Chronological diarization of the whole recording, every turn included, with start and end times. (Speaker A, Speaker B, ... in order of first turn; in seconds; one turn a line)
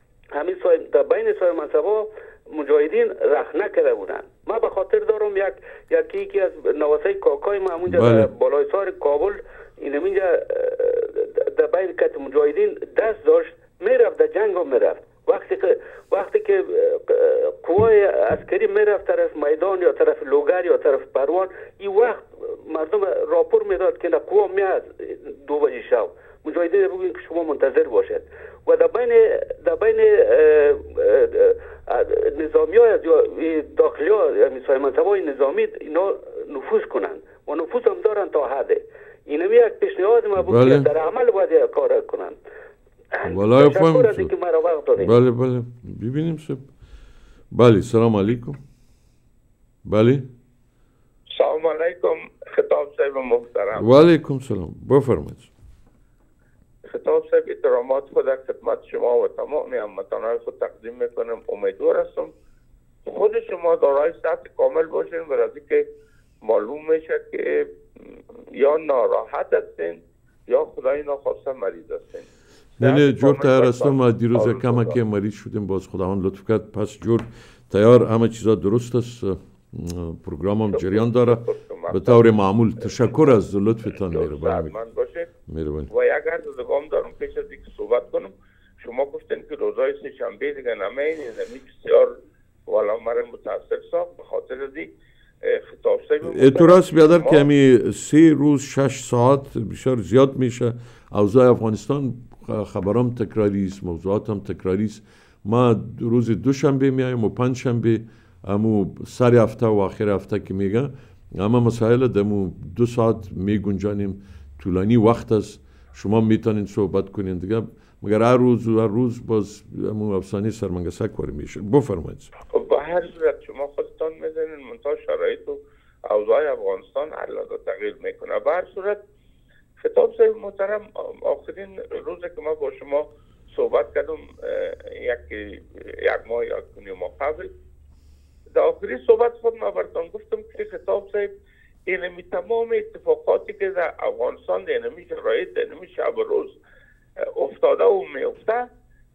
Speaker A: 0.3-42.4
Speaker B: 7.9-8.3
Speaker B: 40.4-40.9
Speaker A: 43.1-45.1
Speaker B: 43.2-44.3
Speaker B: 45.0-46.6
Speaker B: 47.5-48.6
Speaker B: 49.8-50.3
Speaker C: 51.4-53.9
Speaker B: 53.7-55.5
Speaker C: 56.9-62.3
Speaker C: 63.1-65.8
Speaker C: 66.4-67.7
Speaker C: 68.6-72.2
Speaker C: 72.8-74.9
Speaker B: 72.8-84.8
Speaker C: 80.7-82.3
Speaker C: 82.8-83.3
Speaker C: 83.9-85.3
Speaker B: 85.5-85.9
Speaker C: 85.9-92.1
Speaker C: 92.7-94.9
Speaker C: 95.4-97.5
Speaker B: 96.2-122.3
Speaker C: 122.5-129.0
Speaker C: 129.8-137.5
Speaker C: 138.5-141.3
Speaker C: 141.9-146.6
Speaker C: 147.3-148.7